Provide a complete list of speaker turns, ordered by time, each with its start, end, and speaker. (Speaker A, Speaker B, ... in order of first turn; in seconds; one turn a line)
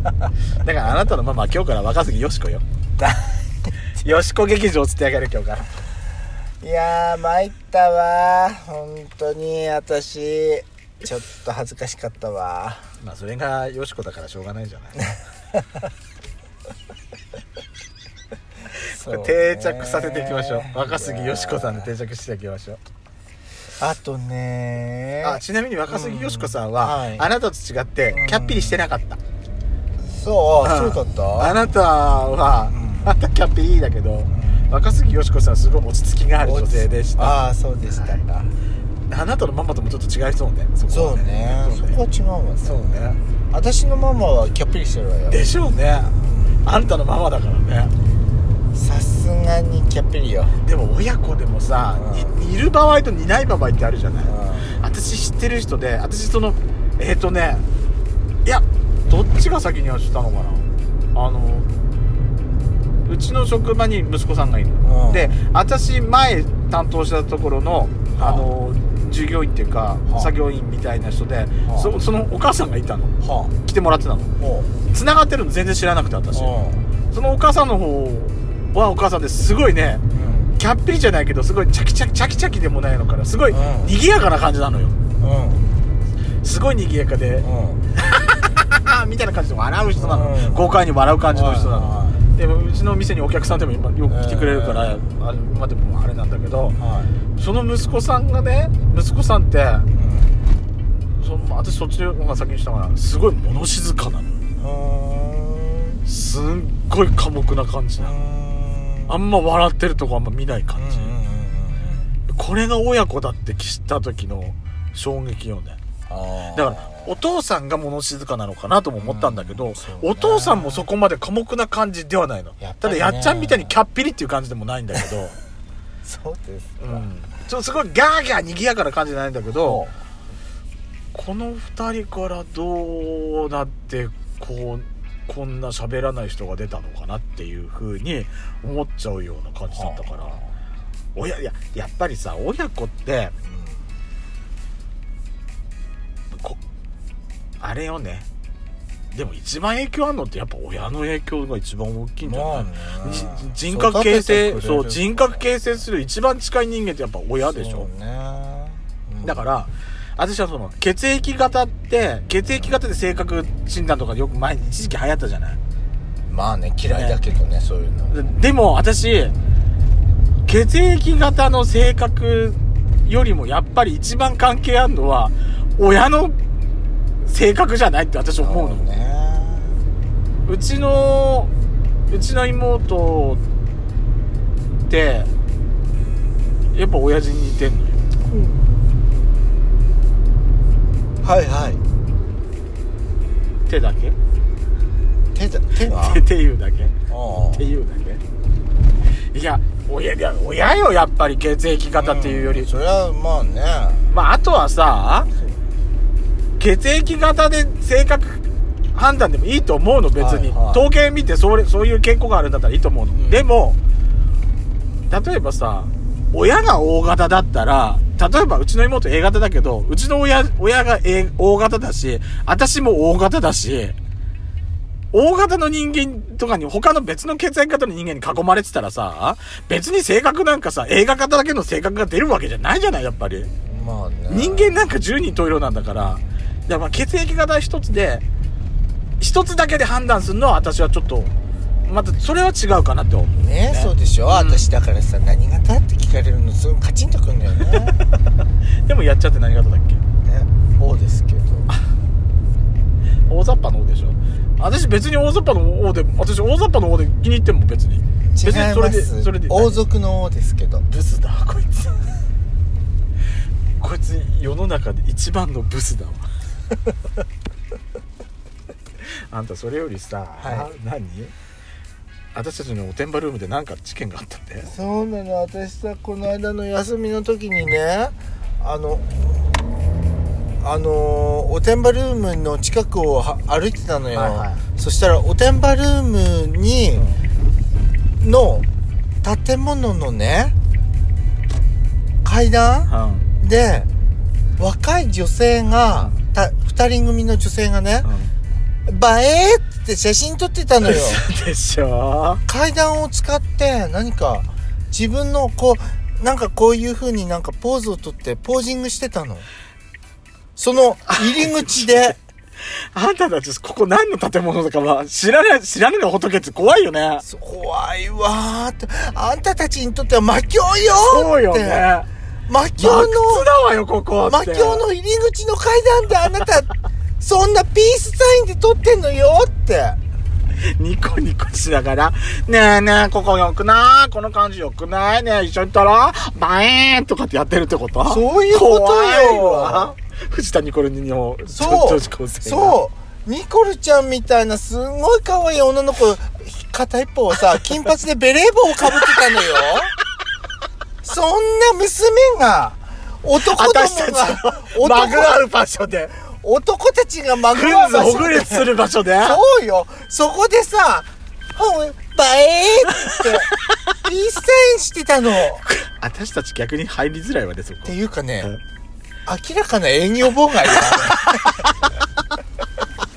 Speaker A: 0.6-2.6
Speaker B: 3.0-3.5
Speaker A: 4.0-5.9
Speaker B: 6.6-12.9
Speaker A: 13.0-15.0
Speaker A: 18.7-22.8
Speaker B: 18.9-21.9
Speaker B: 23.8-27.3
Speaker A: 25.2-29.2
Speaker B: 28.1-28.9
Speaker B: 30.0-31.6
Speaker A: 30.6-38.2
Speaker B: 32.7-33.1
Speaker B: 34.3-34.7
Speaker B: 36.4-38.5
Speaker A: 39.1-42.0
Speaker B: 40.9-45.5
Speaker A: 42.6-43.2
Speaker A: 45.3-46.1
Speaker B: 46.1-46.6
Speaker A: 46.6-47.9
Speaker B: 48.7-50.6
Speaker A: 50.6-57.6
Speaker B: 51.9-52.4
Speaker B: 54.2-54.8
Speaker A: 58.4-61.7
Speaker A: 63.0-74.3
Speaker B: 64.8-65.4
Speaker B: 68.2-68.5
Speaker B: 70.1-70.3
Speaker B: 71.7-72.0
Speaker B: 73.2-73.5
Speaker B: 74.4-74.7
Speaker A: 74.8-76.6
Speaker B: 76.3-76.8
Speaker A: 77.1-80.0
Speaker B: 80.1-80.5
Speaker A: 80.6-85.0
Speaker B: 83.5-83.9
Speaker B: 85.2-85.6
Speaker A: 86.4-96.8
Speaker B: 87.4-87.8
Speaker B: 90.0-90.7
Speaker B: 91.3-92.2
Speaker B: 94.1-95.0
Speaker B: 96.8-97.1
Speaker A: 97.3-99.9
Speaker B: 99.9-100.3
Speaker A: 101.1-104.4
Speaker B: 104.6-106.0
Speaker A: 106.0-108.1
Speaker B: 108.0-109.2
Speaker A: 109.1-111.1
Speaker B: 110.8-112.1
Speaker A: 112.3-115.8
Speaker B: 116.1-117.2
Speaker A: 116.5-125.4
Speaker B: 119.0-120.9
Speaker B: 122.6-123.7
Speaker B: 126.0-127.1
Speaker A: 126.8-129.8
Speaker B: 129.5-129.9
Speaker A: 131.1-140.4
Speaker B: 139.7-140.1
Speaker A: 141.1-143.3
Speaker B: 143.4-143.9
Speaker A: 146.3-146.6
Speaker A: 147.6-148.2
Speaker A: 149.1-157.9
Speaker B: 152.2-155.4
Speaker B: 157.4-159.4
Speaker A: 159.2-165.6
Speaker B: 166.3-168.2
Speaker A: 166.9-167.2
Speaker A: 168.1-169.3
Speaker A: 170.4-176.4
Speaker A: 177.2-178.8
Speaker B: 178.4-179.8
Speaker A: 180.4-181.5
Speaker A: 182.1-183.4
Speaker A: 184.9-185.3
Speaker A: 186.7-188.0
Speaker B: 188.2-188.6
Speaker B: 191.2-191.8
Speaker A: 193.7-194.2
Speaker B: 195.3-196.2
Speaker A: 195.7-196.9
Speaker B: 197.1-197.7
Speaker A: 197.5-198.2
Speaker A: 199.3-202.7
Speaker B: 202.0-204.1
Speaker A: 204.1-205.3
Speaker A: 206.6-213.8
Speaker B: 210.2-210.8
Speaker B: 213.1-213.5
Speaker A: 215.1-224.0
Speaker A: 225.1-233.5
Speaker B: 233.7-234.9
Speaker A: 234.3-238.2
Speaker A: 239.2-241.3
Speaker A: 241.8-244.7
Speaker B: 243.3-248.0
Speaker A: 247.6-247.9
Speaker A: 248.8-250.0
Speaker B: 250.2-251.7
Speaker A: 253.3-259.8
Speaker B: 258.3-260.9
Speaker A: 260.9-262.2
Speaker A: 263.8-266.3
Speaker A: 269.3-271.3
Speaker B: 270.4-270.7
Speaker A: 272.3-274.7
Speaker B: 274.6-279.5
Speaker B: 280.6-287.1
Speaker A: 284.1-284.6
Speaker B: 288.2-288.6
Speaker B: 289.2-290.5
Speaker B: 292.2-293.9
Speaker A: 292.9-293.3
Speaker B: 294.6-298.1
Speaker A: 295.9-296.2
Speaker A: 298.0-298.3
Speaker B: 298.9-301.2
Speaker A: 300.8-302.4
Speaker B: 302.5-309.5
Speaker B: 310.6-312.2
Speaker A: 311.1-311.9
Speaker A: 312.9-317.2
Speaker B: 317.2-321.9
Speaker A: 320.9-322.1
Speaker B: 322.5-323.5
Speaker A: 322.8-324.8
Speaker B: 324.2-330.0
Speaker A: 330.8-342.8
Speaker B: 338.0-339.9
Speaker B: 341.5-349.9
Speaker A: 349.0-349.7
Speaker B: 351.0-355.4
Speaker A: 353.4-356.1
Speaker B: 356.2-365.6
Speaker A: 357.4-359.4
Speaker A: 365.6-368.6
Speaker B: 367.8-368.5
Speaker B: 369.2-371.6
Speaker A: 370.7-371.7